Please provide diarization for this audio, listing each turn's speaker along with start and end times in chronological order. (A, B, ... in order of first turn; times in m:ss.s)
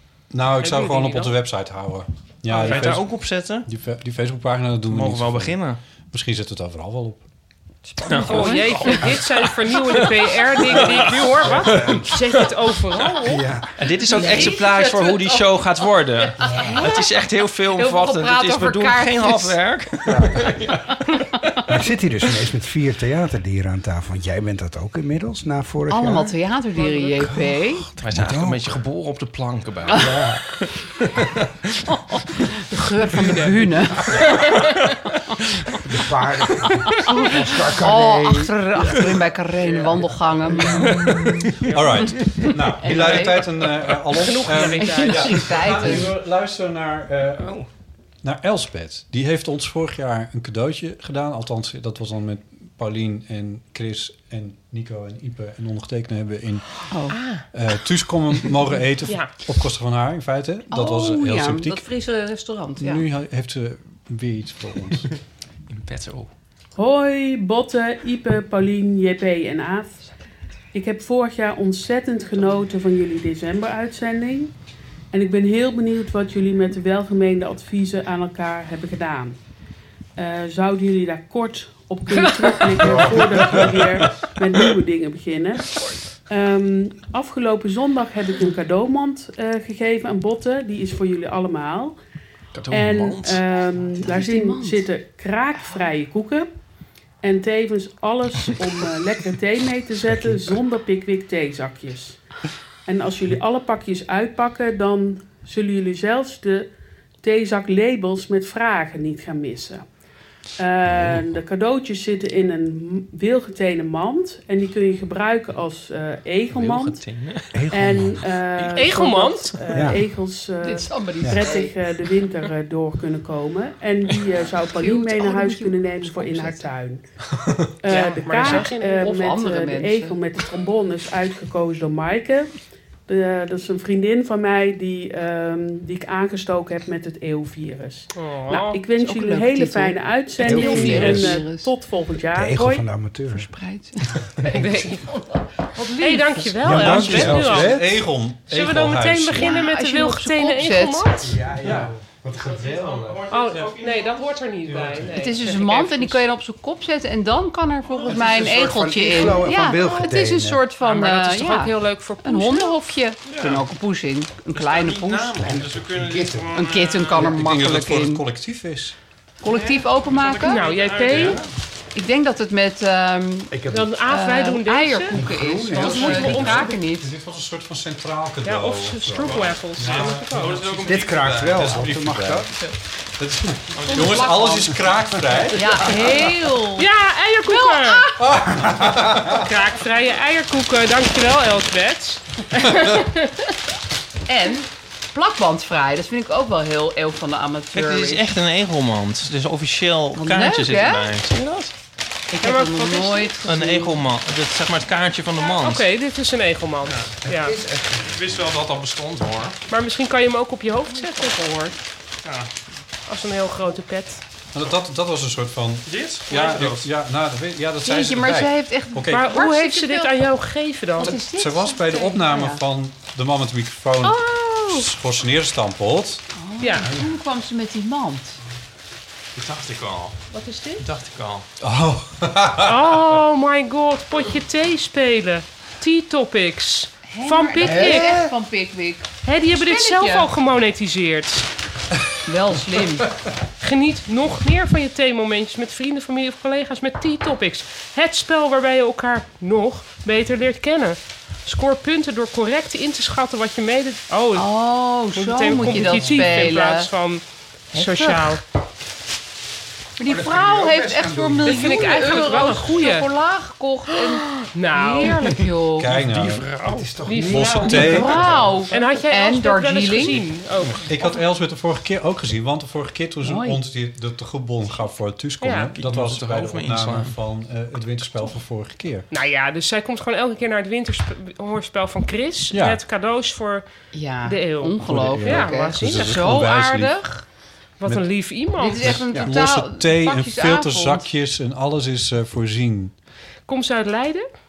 0:00.3-0:03.1 A
0:00.6-0:01.4 B
0:02.5-0:02.9 B
0:02.6-0:03.7 C
0:03.6-0:05.6 A
0:04.9-0:05.8 C
0:06.1-0:07.2 A
0:07.9-0:09.2 D
0:08.0-0:13.1 C
0:08.2-0:13.5 B
0:10.8-0:12.1 E
0:13.2-0:13.7 E
0:13.8-0:21.0 C
0:14.0-0:15.6 D
0:14.2-0:14.5 B
0:16.3-0:17.1 D
0:16.4-0:16.8 E
0:17.7-0:20.1 D
0:20.1-0:20.5 E
0:21.7-0:26.4 E
0:25.9-0:27.9 D
0:26.8-0:27.1 B
0:27.2-0:27.5 E
0:27.9-0:31.4 C
0:28.1-0:28.8 E
0:30.0-0:30.4 E
0:32.7-0:34.5 D
0:33.2-0:33.5 B
0:35.8-0:41.0 E
0:36.9-0:41.4 D
0:40.8-0:42.6 C
0:41.7-0:47.5 A
0:42.0-0:43.4 D
0:44.1-0:45.7 B
0:44.7-0:46.1 D
0:47.4-0:47.7 C
0:48.2-0:56.8 A
0:56.9-0:57.2 D
0:57.1-0:57.4 B
0:57.5-1:01.8 A
0:59.0-0:59.3 B
1:00.7-1:03.0 D
1:02.8-1:05.1 A
1:05.7-1:06.3 C
1:06.8-1:10.0 F
1:10.7-1:14.5 F
1:15.1-1:19.4 F
1:20.2-1:25.8 F
1:22.1-1:23.0 D
1:22.8-1:23.8 E
1:26.3-1:32.0 F
1:32.5-1:33.4 C
1:32.7-1:36.5 F
1:34.0-1:34.8 D
1:37.2-1:42.2 F
1:42.8-1:46.7 F
1:47.2-1:49.8 F
1:50.6-1:57.0 F
1:56.5-1:57.6 C
1:57.5-1:58.2 E
1:57.7-2:07.0 F
1:58.7-1:59.6 B
1:59.7-2:00.0 E
2:00.6-2:01.8 D
2:01.2-2:01.5 E
2:04.6-2:06.7 D
2:07.8-2:12.5 F
2:07.9-2:09.1 B
2:08.4-2:10.2 D
2:13.1-2:22.8 F
2:18.1-2:18.8 B
2:18.9-2:21.7 D
2:20.4-2:21.4 E
2:20.6-2:21.0 B
2:22.3-2:23.5 E
2:23.3-2:27.2 D
2:24.4-2:25.0 B
2:25.9-2:27.8 B
2:26.6-2:27.8 E
2:26.7-2:29.6 A
2:28.5-2:31.4 B
2:29.4-2:31.3 D
2:31.2-2:32.0 E
2:31.6-2:33.7 A
2:32.3-2:35.0 C
2:33.3-2:36.2 B
2:34.6-2:35.2 A
2:35.1-2:45.4 D
2:38.0-2:40.7 E
2:40.8-2:42.8 B
2:43.3-2:43.6 C
2:44.5-2:47.3 C
2:45.4-2:47.2 E
2:46.5-2:48.2 D
2:47.2-2:49.0 A
2:49.4-2:50.6 D
2:49.4-2:51.5 C
2:50.2-2:51.4 B
2:51.9-2:57.1 D
2:53.5-2:53.9 E
2:53.7-2:55.2 B
2:55.1-2:56.7 E
2:55.8-2:56.8 B
2:56.3-3:06.1 A
2:58.4-3:00.6 B
2:59.1-3:01.8 C
3:00.8-3:02.5 E
3:03.7-3:04.4 C
3:03.8-3:04.8 D
3:05.5-3:06.9 D
3:05.9-3:08.1 B
3:07.4-3:08.4 D
3:08.2-3:09.4 A
3:08.6-3:09.0 E
3:09.3-3:13.3 B
3:14.2-3:18.3 D
3:17.7-3:21.7 C
3:20.2-3:21.1 D
3:22.3-3:24.0 D
3:22.4-3:23.4 B
3:23.4-3:25.8 C
3:25.5-3:27.6 B
3:26.9-3:27.1 C
3:27.2-3:28.2 E
3:28.1-3:29.6 C
3:29.7-3:31.7 B
3:33.1-3:34.2 B
3:34.5-3:39.4 A
3:35.8-3:36.9 C
3:37.8-3:40.3 D
3:39.1-3:41.2 B
3:41.0-3:42.6 D
3:41.1-3:46.2 A
3:44.0-3:44.9 D
3:46.3-3:48.4 D
3:46.6-3:46.9 B
3:49.4-3:50.2 C
3:50.3-3:50.8 B
3:50.8-3:51.4 C
3:51.6-3:53.0 A
3:52.6-3:58.2 B
3:57.0-4:00.3 D
3:57.6-3:58.3 E
3:59.2-4:01.5 B
4:02.2-4:03.1 D
4:03.6-4:14.5 B
4:14.3-4:16.9 D
4:15.1-4:17.2 B
4:15.5-4:16.4 E
4:17.7-4:18.4 D
4:17.7-4:18.4 B
4:20.0-4:26.0 D
4:20.0-4:22.8 E
4:21.4-4:23.1 B
4:23.9-4:25.4 B
4:25.8-4:26.5 A
4:25.9-4:27.0 C
4:26.6-4:28.7 E
4:27.0-4:31.1 B
4:27.2-4:28.2 A
4:27.6-4:30.3 D
4:30.6-4:39.1 A
4:33.2-4:33.6 D
4:35.4-4:35.7 B
4:35.7-4:37.1 C
4:39.1-4:43.7 B
4:42.5-4:42.8 A
4:43.9-4:47.2 D
4:44.2-4:46.3 B
4:44.8-4:47.0 A
4:47.8-4:49.0 B
4:48.6-4:51.1 D
4:48.8-4:52.9 A
4:53.4-4:54.2 B